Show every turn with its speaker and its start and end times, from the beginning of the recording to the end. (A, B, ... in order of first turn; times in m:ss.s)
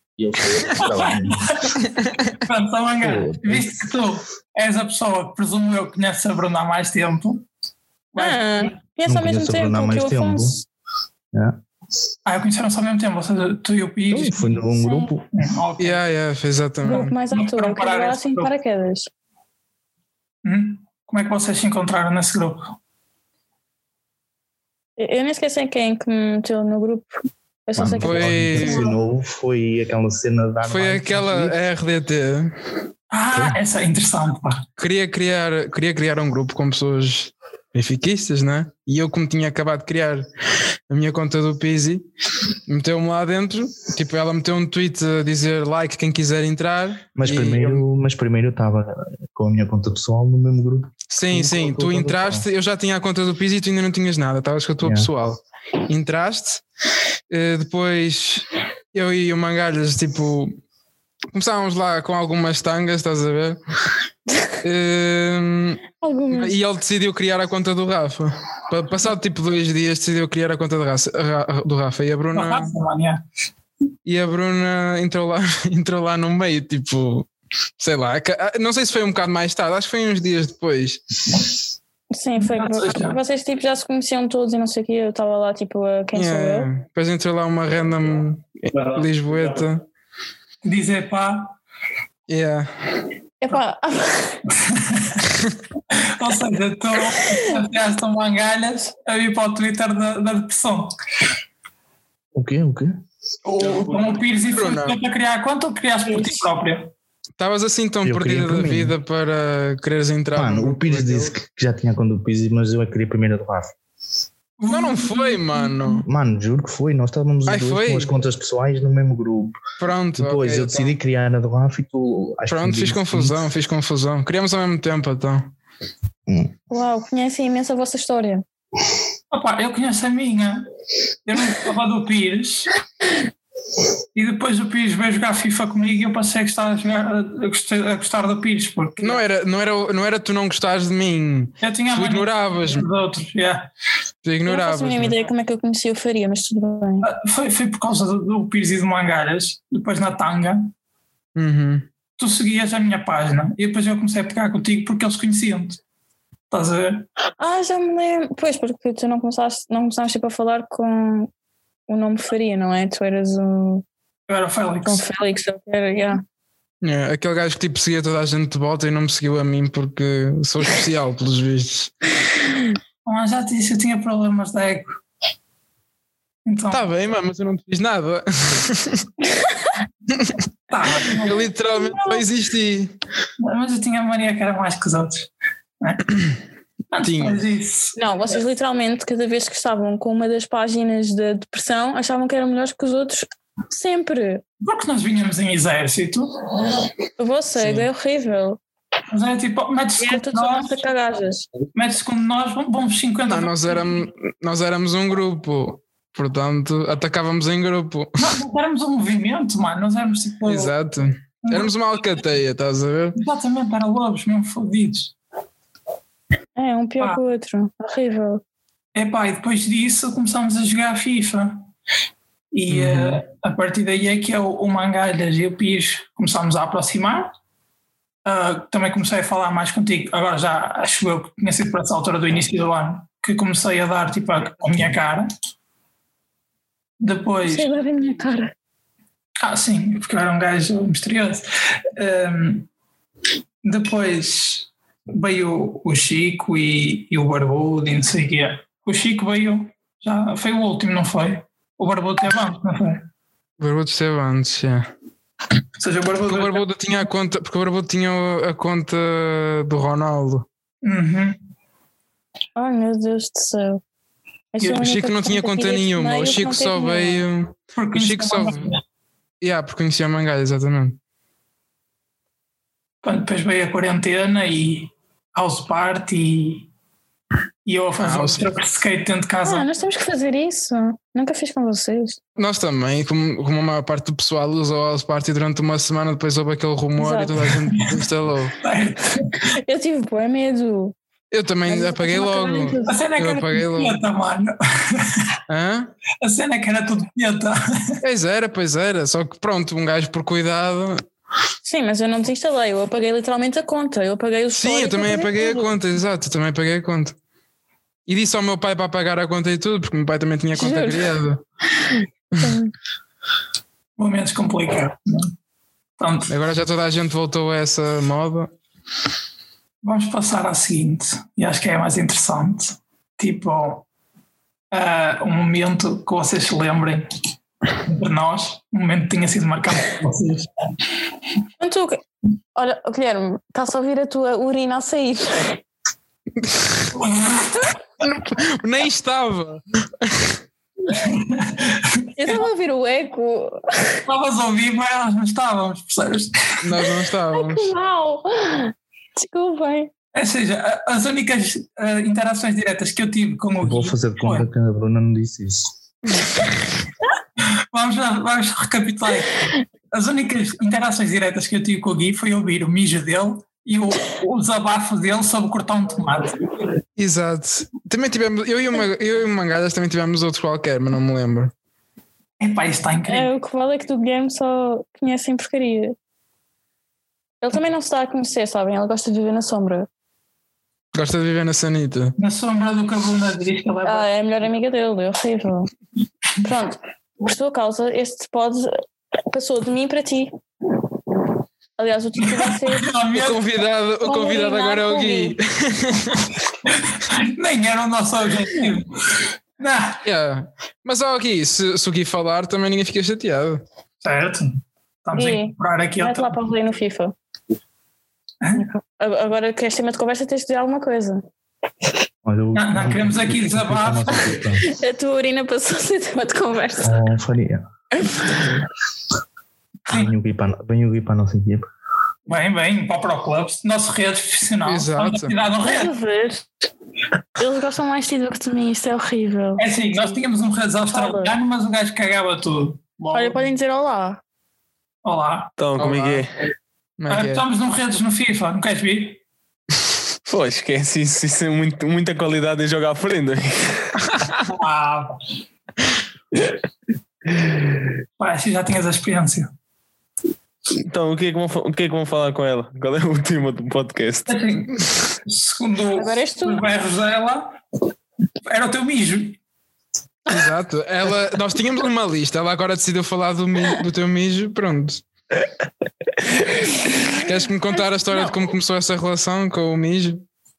0:00.2-0:01.4 A
0:00.8-0:01.8 B
0:01.8-0:02.3 C
0:02.4-0:07.5 B
0:03.0-0:03.8 A
0:08.1-0:08.8 B
0:08.2-0:10.7 D
0:09.0-0:10.6 A
0:12.3-0:14.5 B
0:14.1-0:15.3 A
0:14.7-0:15.1 D
0:15.4-0:16.0 B
0:15.8-0:17.1 C
0:16.8-0:19.1 D
0:16.8-0:18.5 B
0:20.4-0:22.6 B
0:25.0-0:27.2 D
0:27.7-0:28.9 D
0:27.8-0:31.6 A
0:28.0-0:28.8 C
0:30.7-0:32.5 C
0:33.1-0:34.6 B
0:33.3-0:33.6 A
0:34.8-0:40.2 C
0:40.9-0:42.0 C
0:42.7-0:47.8 C
0:47.2-0:52.5 A
0:51.1-0:56.6 C
0:54.8-0:55.1 A
0:57.3-1:00.5 C
1:01.3-1:03.6 C
1:04.6-1:05.8 C
1:06.0-1:06.6 D
1:06.3-1:12.7 C
1:12.3-1:13.2 B
1:14.1-1:17.3 C
1:17.8-1:21.0 C
1:22.1-1:26.7 D
1:22.4-1:23.2 B
1:26.1-1:29.9 C
1:30.6-1:31.6 B
1:32.3-1:32.7 C
1:33.4-1:34.4 D
1:34.6-1:35.2 B
1:35.9-1:40.9 B
1:37.2-1:37.5 D
1:42.4-1:42.9 A
1:43.4-1:46.9 B
1:44.5-1:45.0 C
1:46.1-1:46.5 D
1:47.4-1:51.3 C
1:48.0-1:49.0 A
1:50.3-1:53.7 A
1:54.6-1:55.6 B
1:54.7-1:56.1 C
1:56.1-1:59.6 A
1:57.5-1:58.2 C
1:59.8-2:01.0 C
2:00.2-2:03.5 A
2:02.5-2:05.5 C
2:06.3-2:06.5 A
2:06.7-2:08.4 D
2:09.3-2:10.6 B
2:11.3-2:12.7 B
2:14.2-2:19.2 B
2:19.0-2:22.9 C
2:21.6-2:23.7 B
2:24.2-2:25.2 C
2:24.5-2:27.1 D
2:27.0-2:30.7 B
2:31.4-2:31.9 C
2:32.2-2:35.8 B
2:36.5-2:37.1 B
2:37.4-2:41.3 D
2:41.9-2:43.8 D
2:44.3-2:45.0 B
2:44.8-2:46.2 D
2:46.8-2:51.9 C
2:53.0-2:54.9 B
2:56.5-2:56.9 B
2:56.7-2:59.0 C
3:00.7-3:01.4 B
3:01.2-3:03.0 C
3:01.8-3:02.2 D
3:03.4-3:05.3 B
3:05.8-3:06.1 B
3:06.9-3:07.9 B
3:07.0-3:07.5 C
3:08.0-3:14.4 D
3:14.6-3:16.4 B
3:17.2-3:18.6 D
3:17.6-3:17.9 C
3:19.1-3:20.8 B
3:20.0-3:21.5 D
3:21.7-3:23.9 B
3:23.3-3:28.4 C
3:28.2-3:30.7 B
3:30.4-3:33.2 C
3:31.4-3:31.7 B
3:33.2-3:35.1 B
3:36.6-3:38.4 D
3:39.0-3:41.6 B
3:42.5-3:47.3 B
3:42.7-3:43.2 C
3:48.2-3:55.3 B
3:57.0-3:57.7 B
3:57.4-3:58.5 D
3:59.4-4:01.4 B
4:02.0-4:02.7 B
4:03.6-4:13.0 B
4:13.6-4:14.8 C
4:15.8-4:16.7 B
4:16.2-4:20.5 C
4:20.8-4:21.4 B
4:22.6-4:23.8 D
4:24.5-4:27.2 D
4:24.6-4:24.8 B
4:24.8-4:28.7 C
4:27.8-4:28.8 B
4:29.4-4:31.0 C
4:33.0-4:36.7 B
4:37.7-4:39.7 B
4:38.0-4:38.5 C
4:39.4-4:42.2 D
4:42.4-4:48.6 C
4:47.0-4:47.3 D
4:48.6-4:49.3 B
4:49.5-4:51.0 D
4:51.3-4:54.0 C
4:51.7-4:53.0 D
4:52.9-4:55.3 B
4:55.5-4:55.9 C
4:56.2-4:57.9 B
4:58.0-5:01.0 C
5:01.6-5:05.7 D
5:04.5-5:07.2 C
5:08.1-5:11.4 C
5:10.5-5:11.1 D
5:12.3-5:12.6 C
5:12.4-5:12.7 D
5:14.0-5:15.3 B
5:16.0-5:16.3 B
5:16.3-5:18.5 C
5:19.8-5:23.8 B
5:24.7-5:27.0 B
5:27.8-5:30.5 B
5:31.6-5:32.0 D
5:32.6-5:35.6 D
5:36.4-5:36.9 C
5:37.0-5:37.5 B
5:38.0-5:40.4 C
5:40.9-5:42.4 B
5:42.2-5:44.0 D
5:44.1-5:46.9 B
5:46.6-5:47.7 C
5:47.3-5:49.9 D
5:50.1-5:54.5 B
5:53.6-5:55.7 A
5:57.7-6:06.4 B
6:07.0-6:11.5 C
6:12.4-6:13.3 B
6:13.1-6:16.0 D
6:17.4-6:19.9 D
6:20.9-6:22.1 C
6:22.2-6:24.1 B
6:23.8-6:25.7 D
6:26.4-6:28.8 D
6:29.3-6:30.3 D
6:31.8-6:32.9 D
6:32.3-6:33.4 B
6:33.2-6:36.3 C
6:34.0-6:35.4 D
6:36.7-6:40.0 B
6:40.0-6:43.6 C
6:44.0-6:46.3 B
6:45.1-6:47.2 D
6:48.5-6:51.2 D
6:52.2-6:54.7 A
6:52.5-6:54.3 B
6:54.7-6:56.9 D
6:56.8-6:57.6 A
6:59.9-7:01.7 A
7:02.3-7:05.9 B
7:04.6-7:05.4 C
7:05.6-7:06.5 D
7:07.4-7:10.2 D
7:09.6-7:13.4 B
7:10.9-7:11.4 D
7:13.1-7:14.2 D
7:15.0-7:15.5 B
7:15.6-7:16.3 E
7:15.8-7:16.2 C
7:17.0-7:17.4 C
7:17.1-7:19.2 B
7:20.3-7:23.9 E
7:24.5-7:25.1 B
7:28.2-7:29.5 B
7:30.8-7:34.3 E
7:34.3-7:37.4 B
7:36.0-7:36.6 D
7:38.4-7:39.4 B
7:40.3-7:45.0 C
7:46.4-7:47.2 D
7:47.1-7:50.2 C